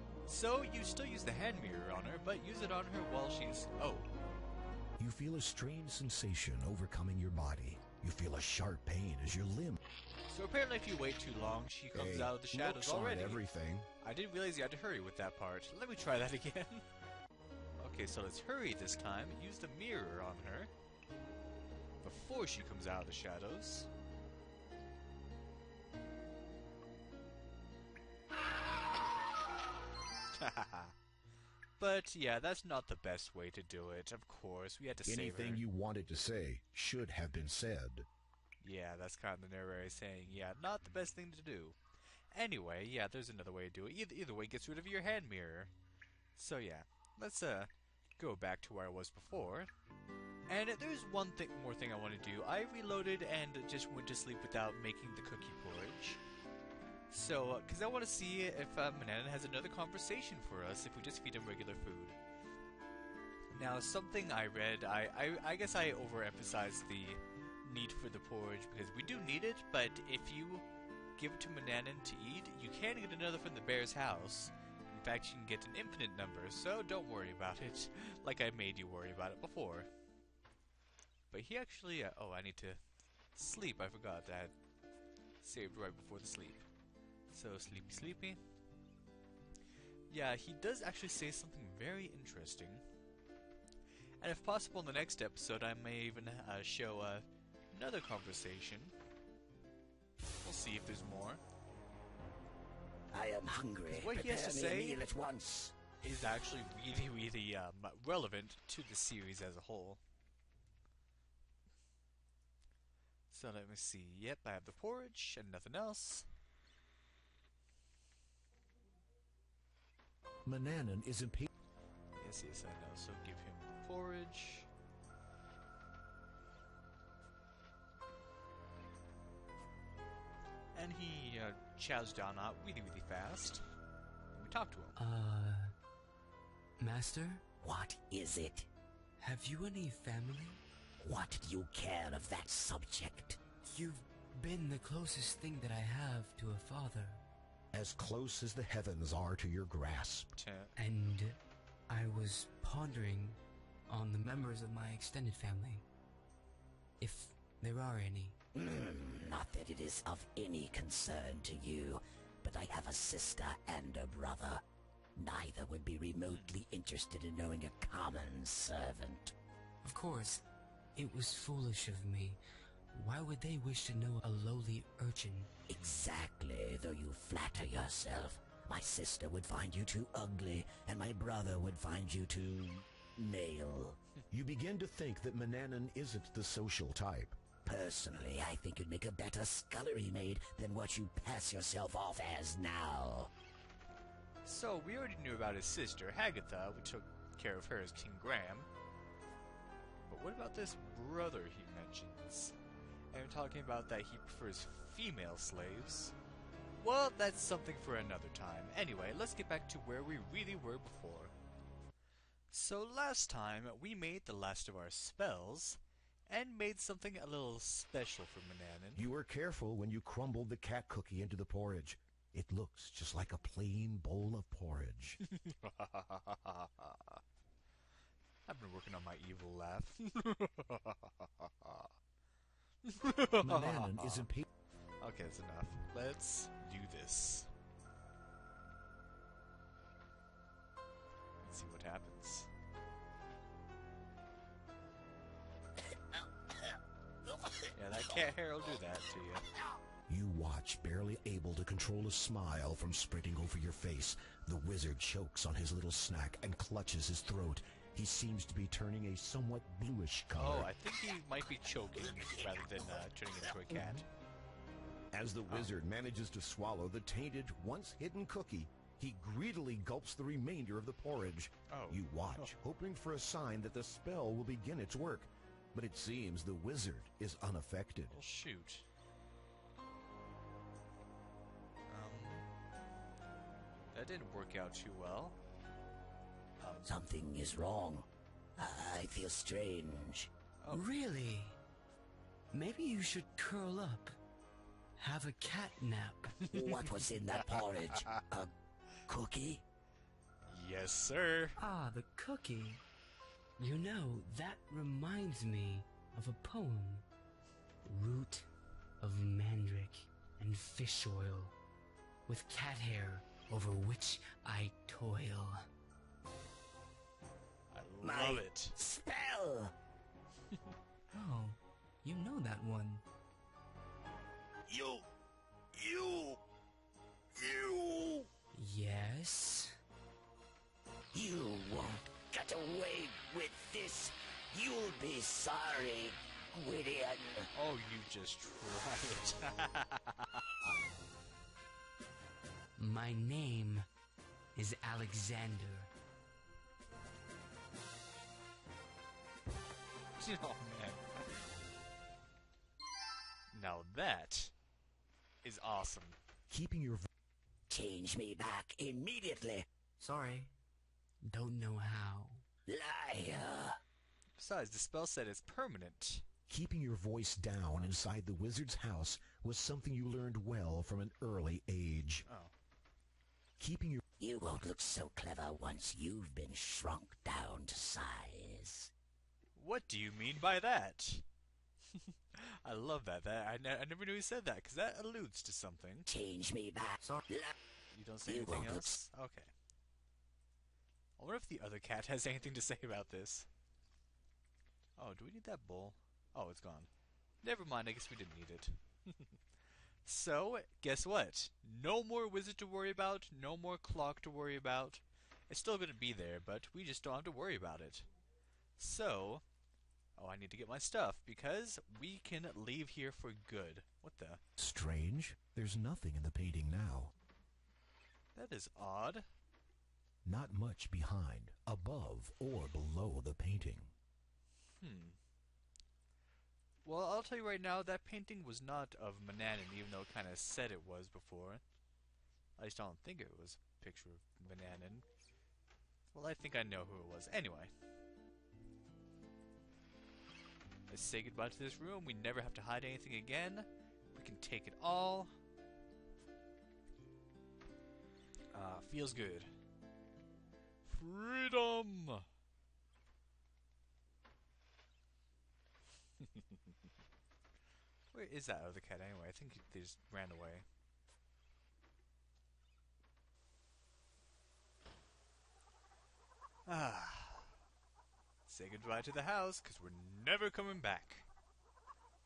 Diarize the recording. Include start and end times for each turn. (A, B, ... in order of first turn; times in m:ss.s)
0:00.2-0:04.1 A
0:05.0-0:09.8 B
0:10.3-0:13.4 A
0:11.9-0:13.9 B
0:14.0-0:16.8 A
0:17.8-0:20.7 A
0:22.0-0:23.9 A
0:30.3-0:30.9 A
0:31.8-0:35.6 A
0:35.0-0:38.1 B
0:38.6-0:41.8 A
0:42.3-0:45.7 A
0:46.4-0:49.7 A
0:50.5-0:56.2 A
0:57.1-1:02.2 A
1:03.5-1:10.7 A
1:11.2-1:19.9 A
1:21.3-1:22.8 A
1:23.3-1:24.6 A
1:25.4-1:26.7 A
1:27.3-1:28.4 A
1:30.1-1:32.8 A
1:34.2-1:38.9 A
1:40.4-1:41.4 A
1:43.1-1:45.7 C
1:43.9-1:45.0 A
1:46.0-1:50.0 A
1:53.3-1:56.3 A
2:00.4-2:01.5 B
2:02.1-2:04.7 A
2:10.7-2:13.6 A
2:14.3-2:15.0 A
2:15.0-2:15.7 D
2:16.8-2:17.4 D
2:17.6-2:18.7 C
2:19.2-2:20.6 D
2:21.0-2:23.4 C
2:23.7-2:27.2 D
2:27.7-2:30.4 B
2:30.3-2:30.7 A
2:30.8-2:31.4 D
2:31.9-2:35.8 D
2:37.0-2:38.4 D
2:38.6-2:44.6 C
2:45.2-2:49.3 C
2:46.3-2:46.6 A
2:49.8-2:50.4 D
2:51.0-2:52.4 D
2:52.9-2:55.5 D
2:55.7-3:04.0 C
3:04.3-3:07.4 B
3:07.6-3:13.3 C
3:14.4-3:18.7 A
3:20.1-3:22.6 A
3:23.1-3:26.2 A
3:26.8-3:31.3 A
3:32.5-3:39.1 A
3:39.0-3:45.2 B
3:45.2-3:47.2 A
3:48.5-3:51.9 A
3:52.8-3:54.3 A
3:53.4-3:54.4 B
3:55.0-3:57.5 A
4:01.4-4:02.5 A
4:07.7-4:09.4 A
4:10.1-4:20.7 B
4:20.3-4:24.1 A
4:25.1-4:38.2 B
4:25.5-4:25.7 A
4:31.7-4:32.5 A
4:38.1-4:38.9 A
4:41.9-4:42.5 A
4:43.9-4:45.4 A
4:46.6-4:46.9 A
4:46.8-4:50.3 C
4:50.6-4:50.9 A
4:50.7-4:51.6 D
4:52.5-4:54.1 D
4:55.0-4:56.5 D
4:56.5-4:58.5 C
4:56.5-4:58.0 A
4:59.1-4:59.6 C
5:00.4-5:01.6 A
5:01.6-5:02.8 D
5:03.6-5:07.1 D
5:07.8-5:08.5 D
5:09.0-5:11.6 D
5:12.3-5:15.6 D
5:17.7-5:18.8 A
5:18.0-5:19.7 C
5:21.1-5:23.0 D
5:24.7-5:25.0 C
5:25.8-5:26.4 C
5:27.4-5:28.3 C
5:28.5-5:29.8 D
5:31.1-5:37.5 C
5:37.5-5:40.4 A
5:42.8-5:43.9 D
5:44.6-5:45.9 D
5:50.2-5:51.4 A
5:53.5-5:54.5 A
5:55.4-5:56.2 A
5:56.5-5:57.1 B
5:57.7-5:59.6 C
6:00.0-6:00.5 D
6:01.3-6:02.4 D
6:02.7-6:03.8 C
6:04.4-6:06.2 A
6:06.5-6:12.2 B
6:07.6-6:08.0 A
6:12.2-6:12.5 A
6:13.6-6:14.0 B
6:14.2-6:18.9 C
6:19.6-6:21.2 A
6:21.9-6:26.1 A
6:26.1-6:27.6 C
6:27.9-6:29.5 A
6:28.2-6:29.0 C
6:31.2-6:33.5 A
6:35.0-6:36.9 A
6:37.4-6:39.4 A
6:40.0-6:48.1 A
6:48.8-6:49.4 A
6:50.2-6:54.4 A
6:54.6-6:57.1 B
6:58.4-6:59.3 A
7:00.2-7:03.9 B
7:04.8-7:05.2 A
7:06.8-7:11.6 A
7:12.6-7:15.1 A
7:16.1-7:17.7 A
7:20.9-7:25.4 A
7:28.5-7:29.6 A
7:30.8-7:32.2 A
7:38.1-7:40.7 A
7:46.7-7:47.6 A
7:48.5-7:51.3 A